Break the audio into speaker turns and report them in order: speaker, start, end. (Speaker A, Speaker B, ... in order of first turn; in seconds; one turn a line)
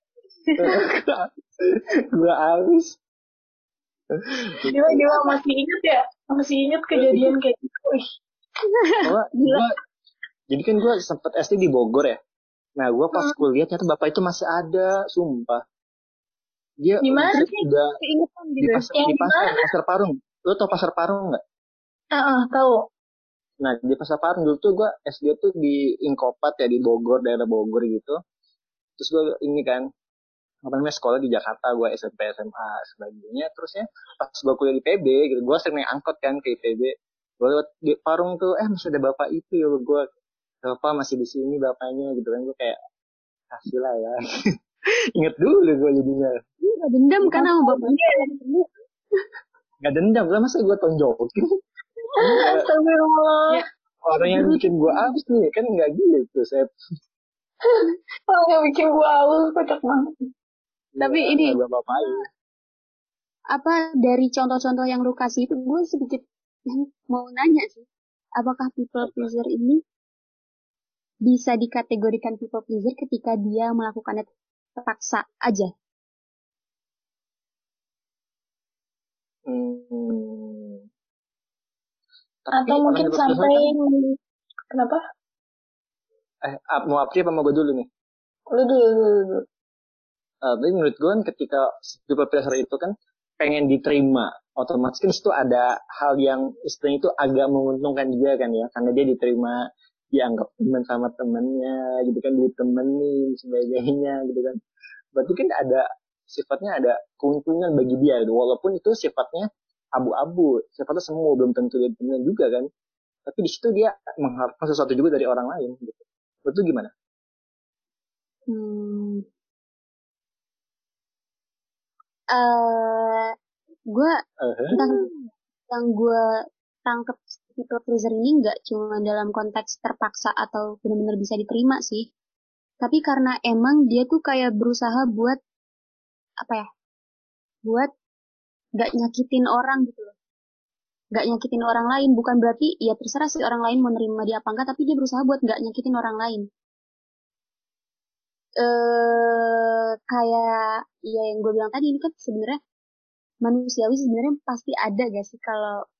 Speaker A: 0.6-3.0
Speaker A: 4.1-4.7
Speaker B: 4.6-8.0
Speaker C: 4.9-5.3
Speaker A: 6.9-7.2
Speaker C: 8.7-9.7
Speaker A: 9.0-9.7
Speaker A: 10.5-12.2
Speaker A: 12.8-15.6
Speaker A: 16.8-18.0
Speaker B: 17.0-17.5
Speaker C: 18.0-18.9
Speaker A: 18.6-21.4
Speaker B: 18.9-19.7
Speaker B: 22.1-22.9
Speaker A: 23.6-28.2
Speaker A: 29.0-29.9
Speaker A: 30.6-40.0
Speaker A: 40.6-42.8
Speaker A: 43.5-44.2
Speaker A: 45.1-46.4
Speaker C: 46.6-48.3
Speaker B: 47.5-48.5
Speaker A: 49.8-51.5
Speaker B: 52.2-53.6
Speaker A: 52.2-52.7
Speaker A: 54.0-56.7
Speaker B: 54.3-54.6
Speaker B: 57.6-60.1
Speaker A: 61.0-62.2
Speaker C: 61.0-62.1
Speaker C: 63.5-66.2
Speaker C: 67.1-67.8
Speaker C: 68.4-69.8
Speaker A: 69.0-69.3
Speaker C: 71.2-74.3
Speaker C: 74.8-75.7
Speaker A: 79.5-80.9
Speaker A: 82.5-83.7
Speaker B: 82.5-84.2
Speaker B: 84.7-85.0
Speaker A: 86.4-87.9
Speaker B: 88.5-89.4
Speaker A: 90.4-104.6
Speaker A: 105.1-112.7
Speaker A: 113.3-116.9
Speaker C: 118.5-119.2
Speaker C: 122.3-123.3
Speaker C: 123.9-124.2
Speaker A: 124.4-124.8
Speaker C: 124.7-125.1
Speaker C: 125.7-126.2
Speaker C: 126.8-132.1
Speaker C: 132.8-135.4
Speaker C: 137.6-137.9
Speaker C: 138.8-140.1
Speaker C: 141.1-146.4
Speaker C: 148.6-152.6
Speaker C: 153.4-155.8